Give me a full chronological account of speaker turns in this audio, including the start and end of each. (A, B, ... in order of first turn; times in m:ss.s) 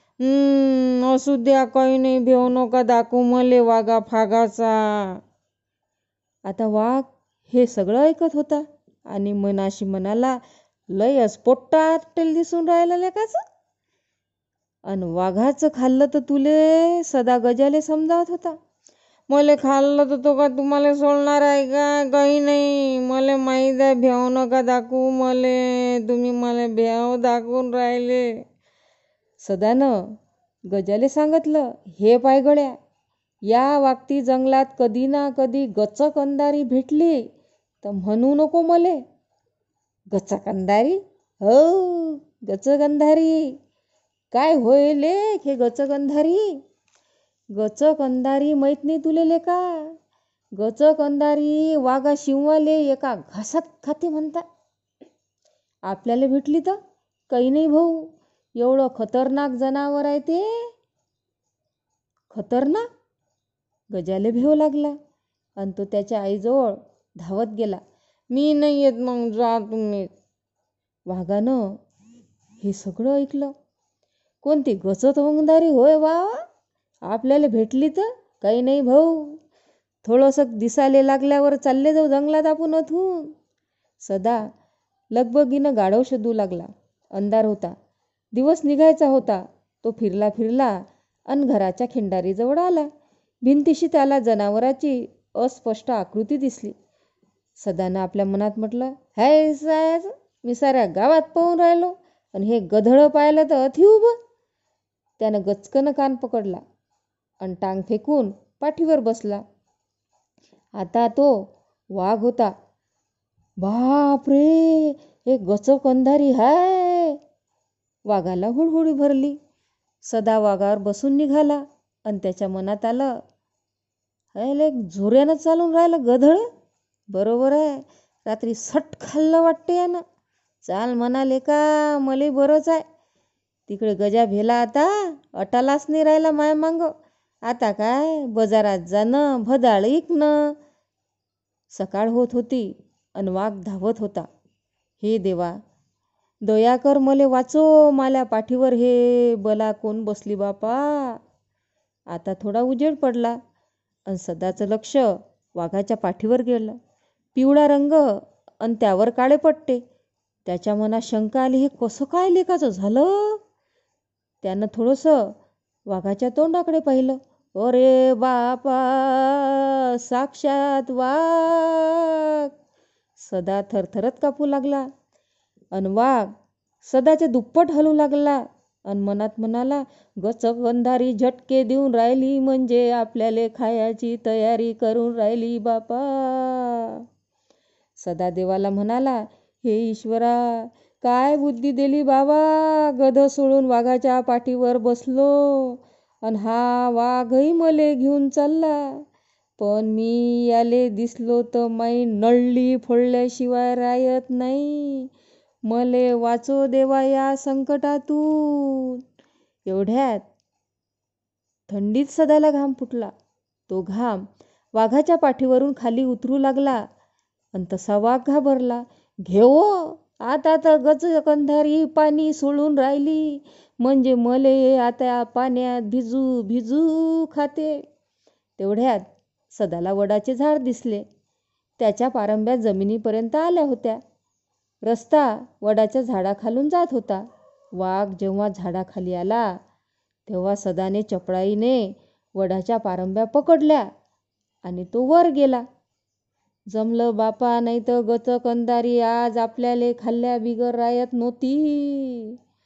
0:00.2-0:04.7 A
0:06.5-0:10.4 A
0:10.9-0:13.4 A
0:14.9-0:18.6 A
0:19.3-0:28.3 A
0:29.4-0:29.9 A
0:30.7-0:32.7 A
0:33.5-0:37.2 A
0:37.8-0:39.0 A
0:40.1-0:43.5 A
0:44.3-0:46.6 A
0:47.5-0:49.9 A
0:50.6-0:54.4 A
0:55.9-0:56.8 A
0:57.3-0:58.0 A
0:58.6-1:00.5 A
1:02.3-1:02.8 A
1:03.9-1:05.0 A
1:05.6-1:07.8 A
1:08.3-1:10.1 A
1:11.1-1:11.6 A
1:12.6-1:13.5 A
1:14.4-1:16.4 A
1:17.1-1:19.4 A
1:20.0-1:23.3 A
1:24.0-1:24.4 A
1:25.1-1:27.7 A
1:28.4-1:30.8 A
1:31.3-1:32.9 A
1:33.4-1:36.7 A
1:37.6-1:44.1 A
1:45.2-1:46.6 A
1:47.4-1:49.4 A
1:50.8-1:51.3 A
1:52.0-1:52.5 A
1:53.6-1:57.2 A
1:58.1-1:59.4 A
2:00.0-2:03.1 A
2:04.3-2:06.4 A
2:07.1-2:10.0 A
2:10.6-2:12.8 A
2:13.7-2:16.9 A
2:17.5-2:20.5 A
2:21.7-2:24.2 A
2:25.0-2:25.6 A
2:26.4-2:31.2 A
2:32.1-2:33.4 A
2:34.1-2:36.7 A
2:37.3-2:39.8 A
2:40.4-2:43.4 A
2:44.4-2:45.3 A
2:45.9-2:52.5 A
2:53.2-2:54.9 A
2:55.7-2:56.3 A
2:56.8-3:07.0 A
3:08.0-3:18.9 A
3:19.6-3:25.1 A
3:25.7-3:29.0 A
3:29.6-3:30.2 A
3:31.7-3:33.1 A
3:33.7-3:34.2 A
3:34.7-3:36.8 A
3:37.5-3:47.8 A
3:48.6-3:51.0 A
3:51.8-3:54.0 A
3:54.8-3:57.2 A
3:57.8-3:59.5 A
4:00.3-4:03.8 A
4:04.6-4:05.6 A
4:06.7-4:12.3 A